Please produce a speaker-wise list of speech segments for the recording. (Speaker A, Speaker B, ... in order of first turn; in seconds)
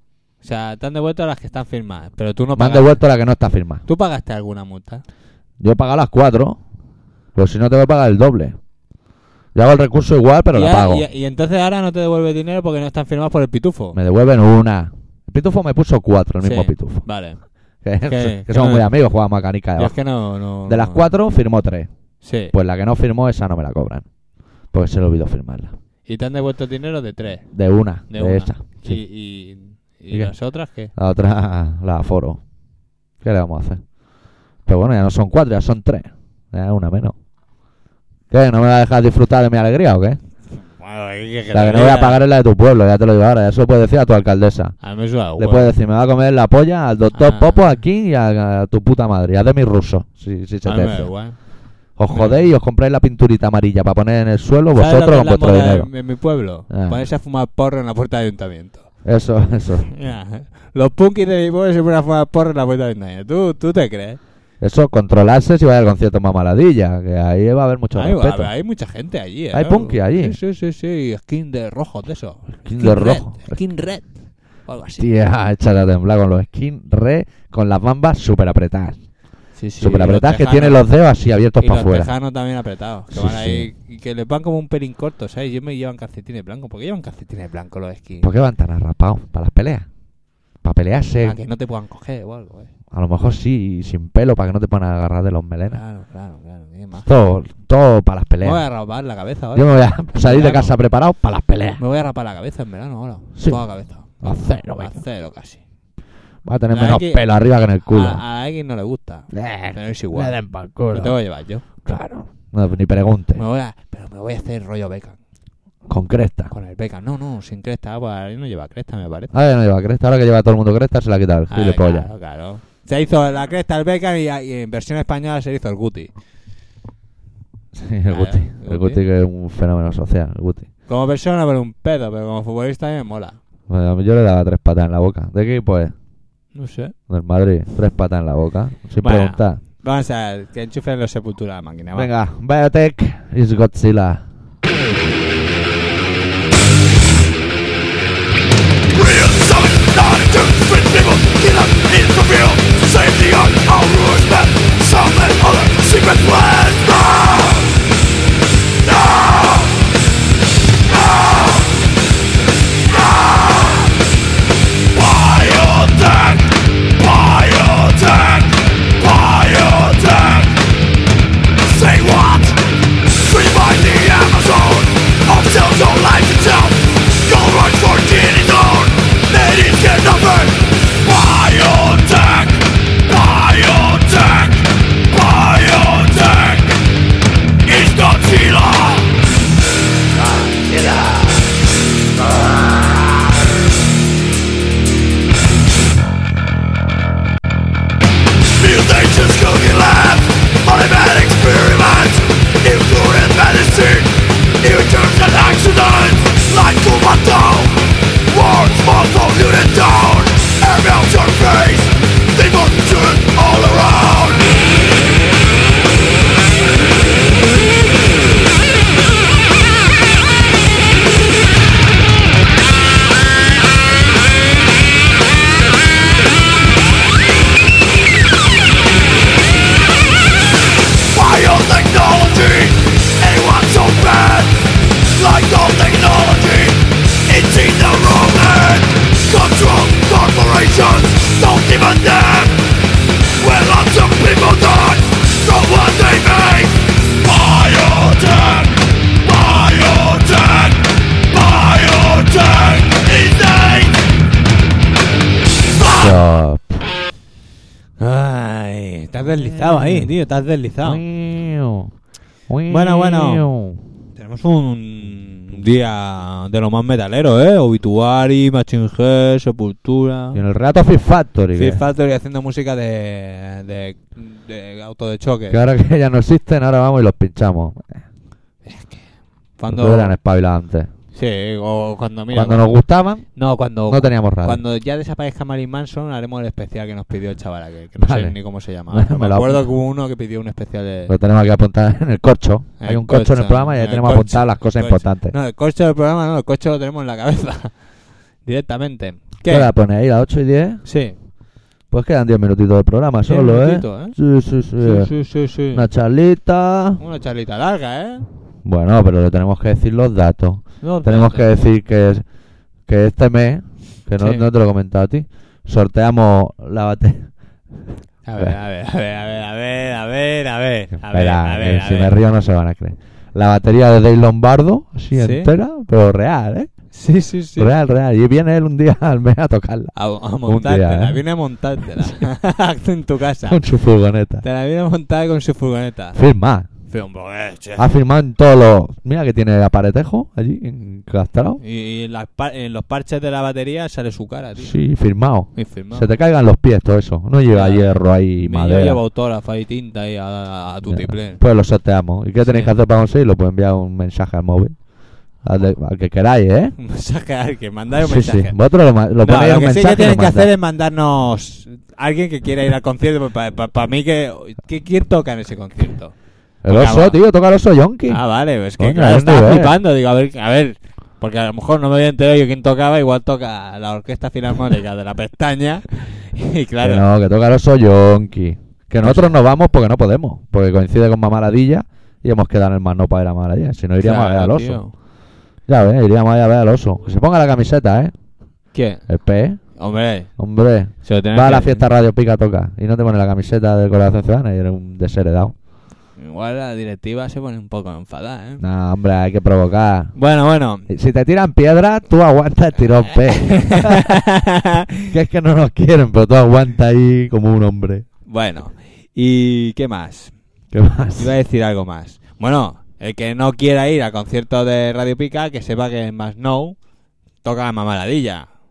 Speaker A: 0.4-3.0, 3.9-5.0, 10.5-14.0, 16.4-17.4, 18.0-18.9, 19.8-21.1, 22.2-22.5, 26.1-27.5, 28.1-30.9, 40.8-42.2, 44.8-45.8, 47.1-47.7, 50.6-51.4, 52.1-52.5, 54.8-58.9, 59.9-64.2, 67.9-74.1, 74.7-75.1, 79.6-80.8, 81.6-88.3, 91.2-92.7, 95.7-97.1, 98.4-100.8, 101.8-105.6, 106.7-107.3, 107.9-110.4, 110.9-111.6, 113.3-115.2, 116.5-119.3, 121.5-126.1, 128.1-129.0, 130.9-133.4, 136.6-136.9, 139.0-142.1, 258.0-261.0, 262.7-263.5, 264.2-270.4, 271.6-275.6, 278.6-279.1, 279.6-280.2, 281.1-282.7, 283.4-291.1, 292.8-297.8, 298.4-299.7, 300.9-301.1, 303.3-304.2, 304.8-305.9, 307.0-308.3, 310.8-311.5, 314.2-314.5, 318.2-322.2, 325.2-325.5, 326.9-327.7, 329.9-333.6, 334.4-336.2, 336.9-337.9, 341.6-344.8, 345.6-346.1, 347.5-351.4, 352.4-352.7, 356.8-358.6, 359.2-367.2, 368.1-377.1, 379.0-379.4, 384.0-384.9, 388.7-389.1, 389.8-390.3, 391.0-391.8, 396.2-398.6, 400.1-400.9, 403.3-405.1, 408.3-410.3, 411.2-416.8, 417.4-418.5
Speaker B: 2.6-3.8, 5.6-6.6, 7.3-8.6, 9.6-11.1, 13.9-17.1, 17.8-20.0, 20.7-21.9, 22.5-24.1, 24.7-25.7, 27.5-29.0, 30.9-32.4, 33.2-33.8, 34.7-37.2, 38.3-40.2, 41.5-44.8, 45.4-51.1, 52.0-55.9, 56.7-57.0, 59.0-59.9, 64.6-68.5, 69.5-70.4, 72.7-73.6, 75.0-79.0, 79.8-82.1, 83.1-83.7, 88.2-89.9, 90.6-91.4, 92.9-95.8, 97.1-98.6, 99.5-101.8, 103.4-105.0, 106.5-108.2, 109.3-111.2, 111.8-113.4, 115.9-116.5, 119.3-122.1, 127.7-130.7, 133.7-135.9, 137.1-139.6, 141.9-144.2, 255.9-256.8, 259.4-260.1, 260.8-261.9, 262.5-263.8, 270.3-271.8, 275.5-278.0, 279.7-280.9, 282.3-283.3, 283.9-284.6, 288.0-288.4, 288.9-289.7, 291.1-295.3, 299.5-300.8, 301.9-305.1, 305.7-307.0, 308.6-312.2, 312.9-317.3, 321.0-326.7, 327.6-329.9, 330.4-331.2, 333.5-334.4, 336.1-336.7, 337.8-341.6, 344.6-349.0, 350.9-354.8, 355.4-356.8, 358.0-360.5, 366.6-368.2, 368.8-369.7, 376.8-384.8, 385.7-388.1, 389.1-389.6, 390.4-395.6, 398.6-400.1, 400.9-404.2, 405.1-408.1, 410.7-411.3
Speaker C: 148.9-157.7, 158.8-159.8, 160.9-161.7, 162.9-163.9, 164.9-170.6, 171.7-172.6, 173.2-186.8, 187.7-189.1, 190.3-191.3, 198.6-214.5, 231.1-242.7, 243.4-254.0, 255.8-256.1